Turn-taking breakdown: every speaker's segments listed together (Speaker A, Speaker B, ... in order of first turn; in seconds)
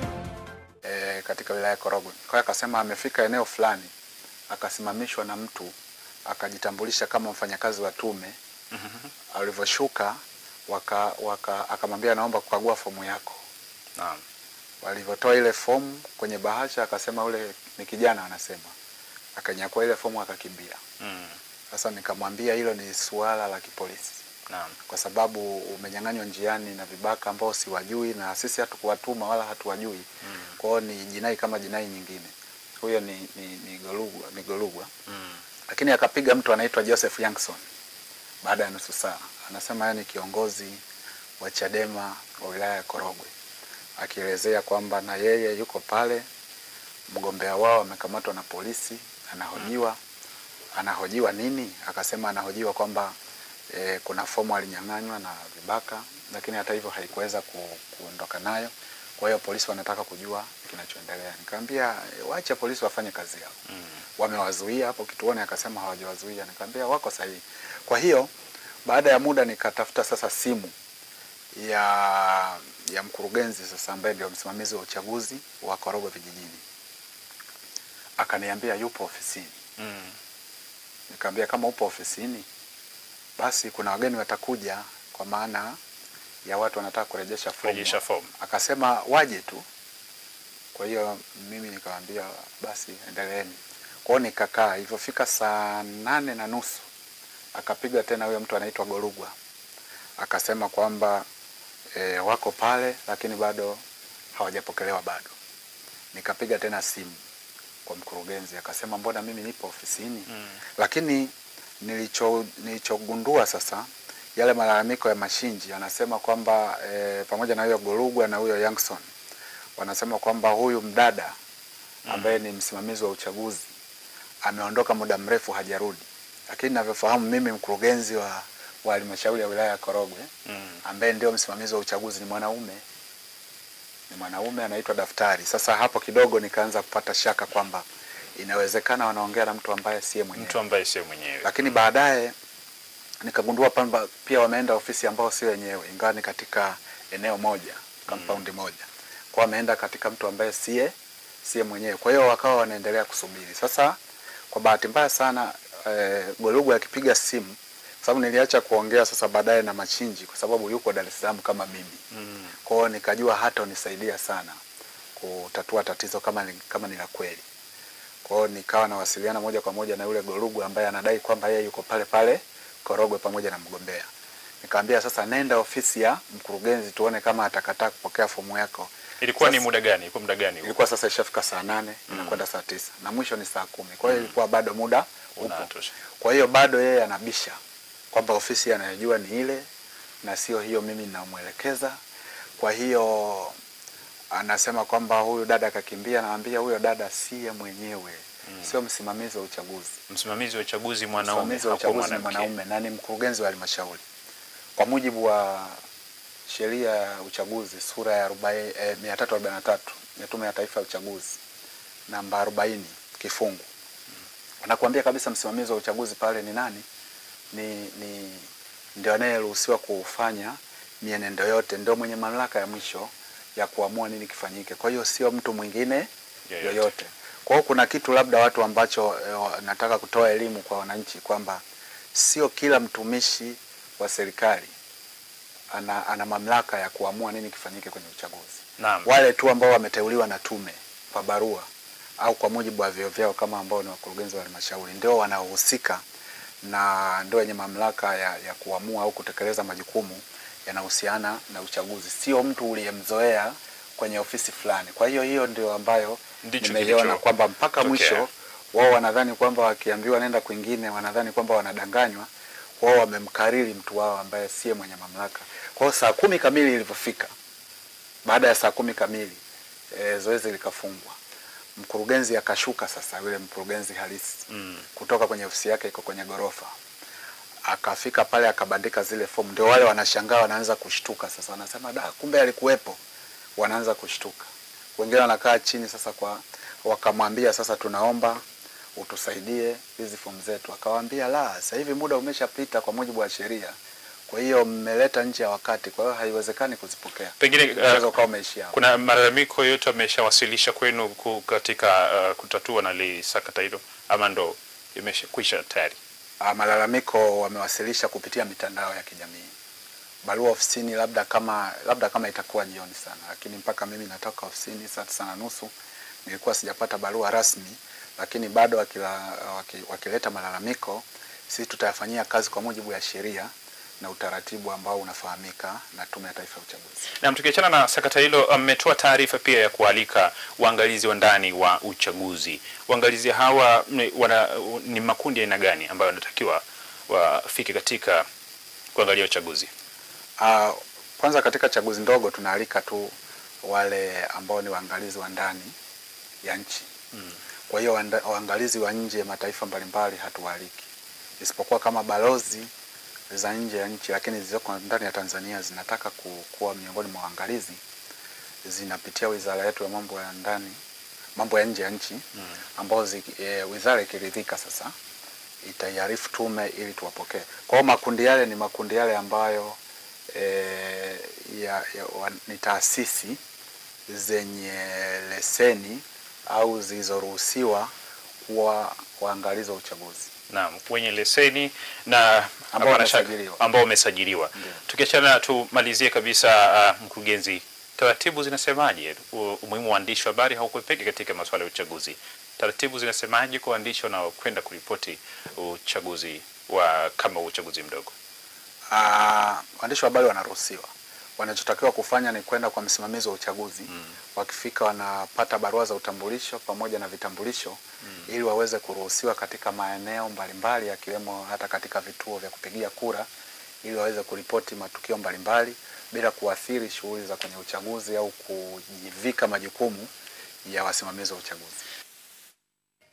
Speaker A: 0.8-3.9, 4.5-5.7, 6.3-8.4, 9.3-13.4, 14.8-18.7, 19.4-20.8, 21.7-24.2, 24.9-30.1, 30.6-34.9, 35.7-37.6, 38.4-40.8, 41.4-43.3, 44.0-46.2, 47.1-50.0, 50.7-53.1, 53.7-63.6, 64.2-68.3, 68.8-70.7, 71.5-76.6, 78.2-79.5, 81.1-82.5, 83.4-85.8, 86.5-89.6, 90.7-96.9, 97.5-99.3, 100.2-101.2, 101.9-103.8, 104.3-105.3, 106.1-107.2, 107.8-119.0, 119.8-121.3, 122.1-123.7, 124.4-130.3, 130.8-132.8, 134.1-137.8, 138.4-140.6, 141.4-142.3, 143.2-150.9, 151.4-154.0, 154.5-162.0, 162.6-164.6, 165.2-167.4, 168.2-174.1, 174.6-179.7, 180.6-185.7, 186.2-187.6, 188.1-189.7, 190.2-192.0, 192.6-193.5, 194.3-200.0, 201.2-204.0, 204.8-205.8, 206.5-211.4, 212.1-213.7, 214.6-216.8, 217.5-226.1, 226.6-231.6, 232.1-234.7, 235.7-241.7, 242.2-246.0, 246.6-262.3, 262.8-267.3, 268.2-269.4, 269.9-271.2, 271.8-276.7, 277.6-283.0, 283.6-288.4, 288.9-293.8, 294.3-298.8, 306.4-309.5, 310.2-315.7, 316.2-327.1, 340.4-343.1, 343.6-345.7, 346.4-346.9, 347.7-350.9, 351.4-352.7, 353.3-357.8, 358.6-360.8, 361.4-362.2, 362.8-364.9, 365.6-369.8, 370.3-373.4, 374.1-377.9, 378.5-380.3, 382.7-383.6, 398.9-413.3, 413.8-420.1, 420.6-421.9
Speaker B: 8.7-9.1, 14.0-14.2, 21.0-21.4, 24.5-24.8, 30.3-30.6, 35.1-35.4, 79.8-80.2, 87.6-88.3, 122.1-122.4, 130.5-130.8, 140.4-141.5, 148.1-148.4, 162.1-162.5, 179.2-180.8, 182.1-182.4, 184.1-184.3, 185.4-185.9, 198.5-198.8, 200.1-202.5, 226.5-226.9, 238.8-239.1, 256.4-257.2, 257.8-258.2, 274.5-274.8, 297.4-298.1, 298.7-306.0, 327.2-338.3, 338.9-339.7, 380.5-398.1